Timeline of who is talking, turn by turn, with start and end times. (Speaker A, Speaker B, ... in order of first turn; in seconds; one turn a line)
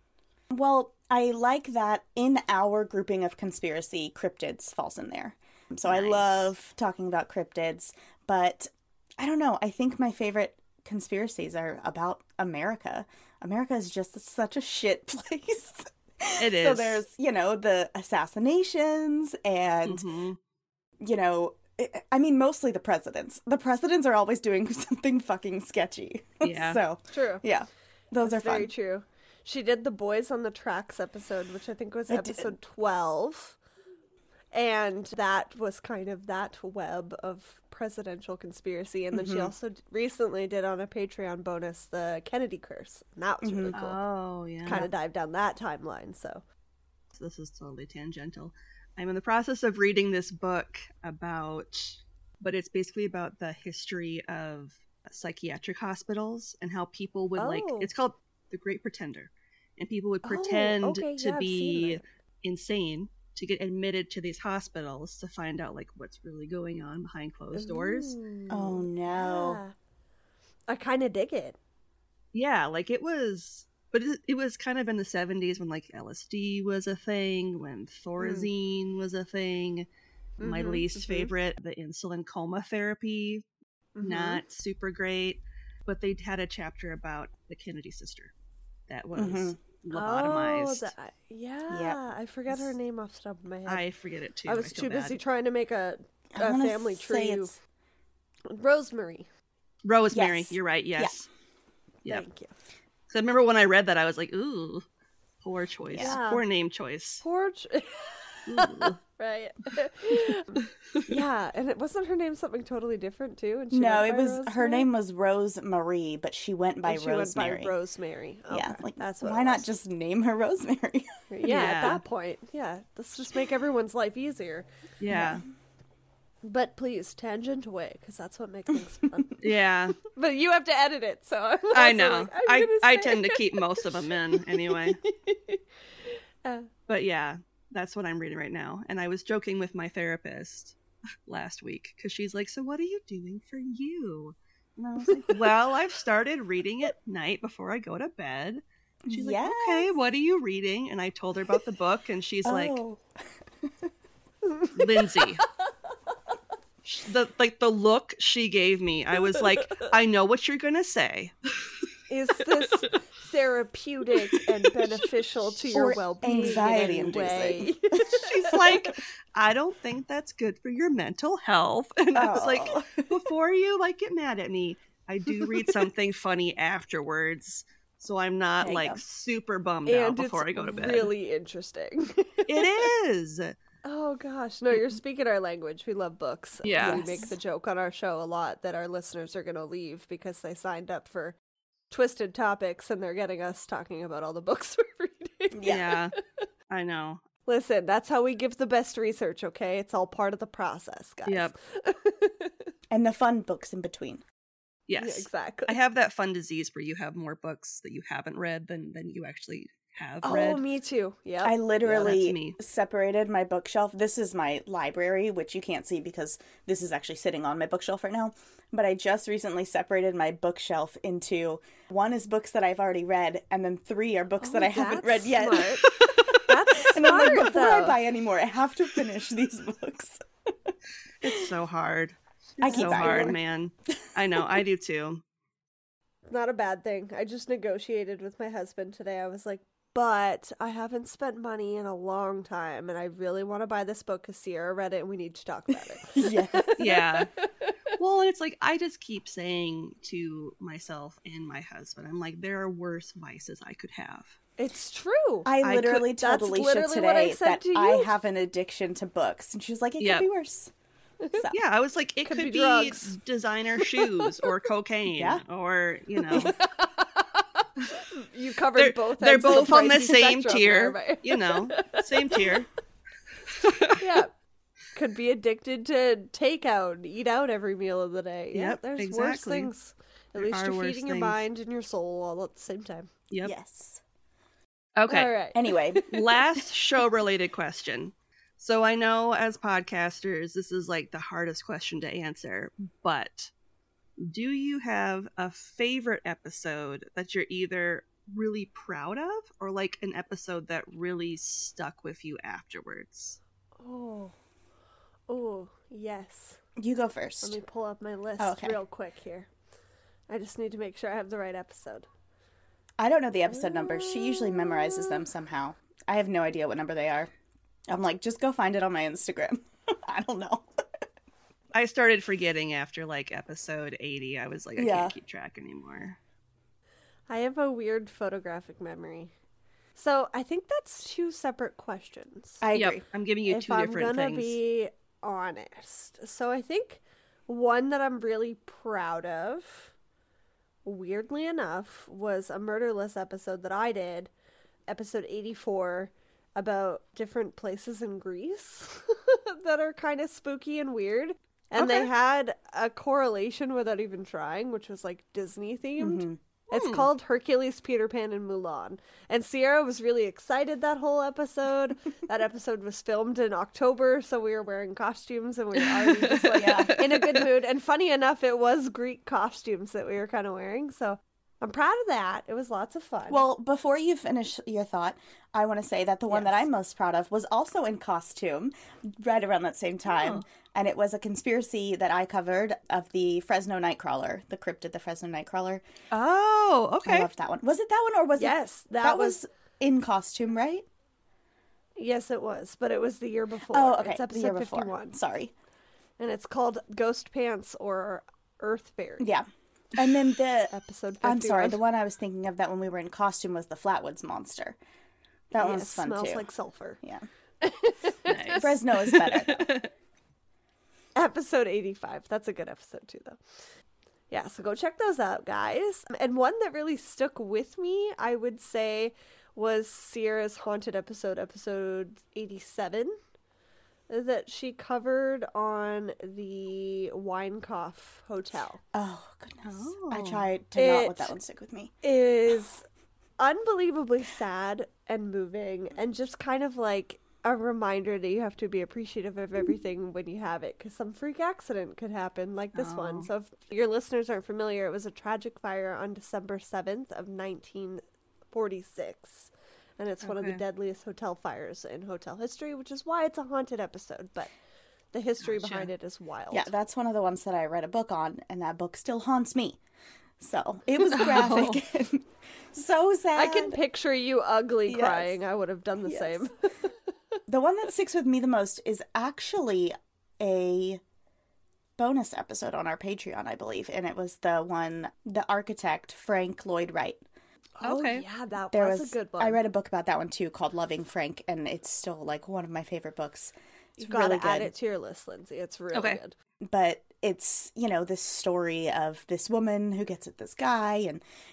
Speaker A: 0.5-20.1
Speaker B: 5.9-6.5
Speaker B: 16.4-17.0
Speaker B: 19.9-20.4
Speaker A: 21.0-28.7
Speaker B: 26.4-26.8
Speaker C: 27.1-27.4
Speaker C: 28.2-33.6
Speaker A: 32.1-32.5
Speaker C: 34.5-44.0
Speaker A: 39.1-39.5
Speaker A: 43.4-43.8
Speaker B: 43.7-44.9
Speaker C: 44.6-46.4
Speaker B: 47.1-68.2
Speaker C: 57.4-57.9
Speaker C: 60.2-62.0
Speaker C: 67.5-69.8
Speaker A: 68.5-69.6
Speaker C: 70.7-71.6
Speaker B: 72.3-79.9
Speaker C: 78.2-78.5
Speaker C: 80.4-81.3
Speaker B: 80.4-83.5
Speaker C: 84.0-84.4
Speaker B: 84.0-88.3
Speaker B: 88.9-90.9
Speaker A: 89.1-89.6
Speaker C: 89.9-93.8
Speaker A: 91.7-92.0
Speaker B: 93.7-95.2
Speaker C: 94.5-97.5
Speaker A: 96.3-97.6
Speaker C: 98.5-99.3
Speaker B: 99.8-101.3
Speaker A: 100.1-101.1
Speaker C: 102.1-102.5
Speaker B: 103.1-104.8
Speaker B: 105.4-107.2
Speaker A: 105.9-106.2
Speaker C: 106.0-106.4
Speaker C: 107.2-114.9
Speaker B: 108.5-109.0
Speaker A: 113.7-117.7
Speaker C: 116.8-119.7
Speaker A: 118.5-121.2
Speaker C: 121.3-124.7
Speaker B: 121.4-122.0
Speaker B: 125.0-125.4
Speaker A: 125.1-125.4
Speaker C: 126.4-129.4
Speaker B: 129.4-130.0
Speaker C: 130.1-136.7
Speaker B: 131.7-135.0
Speaker B: 136.9-152.8
Speaker A: 144.9-145.4
Speaker A: 149.1-149.9
Speaker A: 152.4-153.0
Speaker C: 154.5-155.5
Speaker B: 154.8-155.4
Speaker B: 156.8-161.3
Speaker C: 159.3-159.9
Speaker C: 162.1-168.8
Speaker B: 164.4-164.9
Speaker A: 165.7-168.6
Speaker B: 166.3-166.7
Speaker B: 168.2-181.1
Speaker A: 172.1-173.2
Speaker A: 178.6-179.0
Speaker C: 179.9-182.9
Speaker B: 182.5-183.6
Speaker C: 183.8-191.4
Speaker B: 186.6-187.1
Speaker A: 186.8-187.3
Speaker C: 191.9-196.0
Speaker A: 195.5-195.9
Speaker B: 195.7-196.1
Speaker B: 196.7-197.2
Speaker C: 197.5-202.7
Speaker B: 201.3-201.5
Speaker A: 202.9-204.2
Speaker B: 204.9-210.6
Speaker C: 205.0-205.8
Speaker C: 210.2-211.6
Speaker A: 211.4-226.0
Speaker B: 211.8-212.6
Speaker C: 224.4-228.0
Speaker B: 225.9-226.3
Speaker A: 226.8-230.2
Speaker B: 231.2-235.2
Speaker A: 232.6-233.4
Speaker C: 232.6-233.4
Speaker C: 236.3-247.7
Speaker A: 246.1-246.8
Speaker B: 246.8-247.3
Speaker B: 248.0-254.4
Speaker C: 254.6-255.5
Speaker A: 255.4-260.7
Speaker B: 255.6-256.1
Speaker C: 256.1-258.1
Speaker B: 260.0-260.3
Speaker B: 261.5-266.6
Speaker C: 262.2-263.2
Speaker C: 264.0-264.2
Speaker A: 265.1-265.4
Speaker C: 266.3-272.5
Speaker B: 268.8-272.7
Speaker B: 273.5-274.0
Speaker C: 274.0-274.3
Speaker C: 274.9-283.1
Speaker B: 278.5-279.7
Speaker B: 280.4-281.4
Speaker A: 283.4-284.0
Speaker B: 285.0-285.3
Speaker C: 285.1-286.1
Speaker A: 285.5-286.2
Speaker B: 286.1-293.5
Speaker B: 294.2-303.4
Speaker C: 303.8-304.3
Speaker C: 305.3-306.6
Speaker A: 306.8-307.6
Speaker C: 307.4-309.5
Speaker A: 308.4-308.8
Speaker C: 310.3-312.1
Speaker A: 313.0-317.3
Speaker C: 313.5-315.1
Speaker A: 317.9-320.7
Speaker B: 321.7-326.2
Speaker A: 324.8-325.2
Speaker C: 327.3-329.3
Speaker C: 330.0-332.6
Speaker A: 332.6-333.0
Speaker B: 332.7-334.6
Speaker C: 333.5-339.9
Speaker C: 340.9-344.3
Speaker C: 344.9-373.4
Speaker B: 351.8-352.1
Speaker A: 356.0-356.4
Speaker B: 356.7-357.1
Speaker B: 366.0-367.4
Speaker A: 366.6-367.0
Speaker A: 373.3-385.8
Speaker C: 376.3-376.6
Speaker B: 380.1-380.4
Speaker B: 386.1-387.3
Speaker A: 387.0-390.9
Speaker C: 388.4-389.4
Speaker C: 392.0-395.1
Speaker A: 393.7-395.5
Speaker C: 396.2-399.3
Speaker A: 399.2-404.8
Speaker C: 400.7-401.8
Speaker A: 405.5-406.5
Speaker C: 405.6-407.0
Speaker C: 407.6-408.7
Speaker B: 408.2-409.9
Speaker A: 408.6-409.7
Speaker C: 411.1-413.4
Speaker C: 414.3-423.2
Speaker C: 424.1-428.8
Speaker A: 428.9-431.9
Speaker B: 429.6-430.5
Speaker C: 430.8-431.4
Speaker C: 432.0-432.8
Speaker C: 433.4-454.5
Speaker B: 442.8-443.3
Speaker B: 450.2-450.6
Speaker C: 455.1-456.7
Speaker B: 455.4-455.9
Speaker A: 456.5-459.8
Speaker A: 460.4-463.8
Speaker B: 461.1-461.8
Speaker C: 463.3-466.9
Speaker A: 464.9-465.4
Speaker A: 466.0-466.5
Speaker A: 467.5-471.0
Speaker A: 472.0-477.2
Speaker C: 477.8-479.6
Speaker B: 477.8-478.2
Speaker A: 478.7-484.7
Speaker C: 484.0-486.3
Speaker B: 485.9-486.2
Speaker A: 486.6-491.2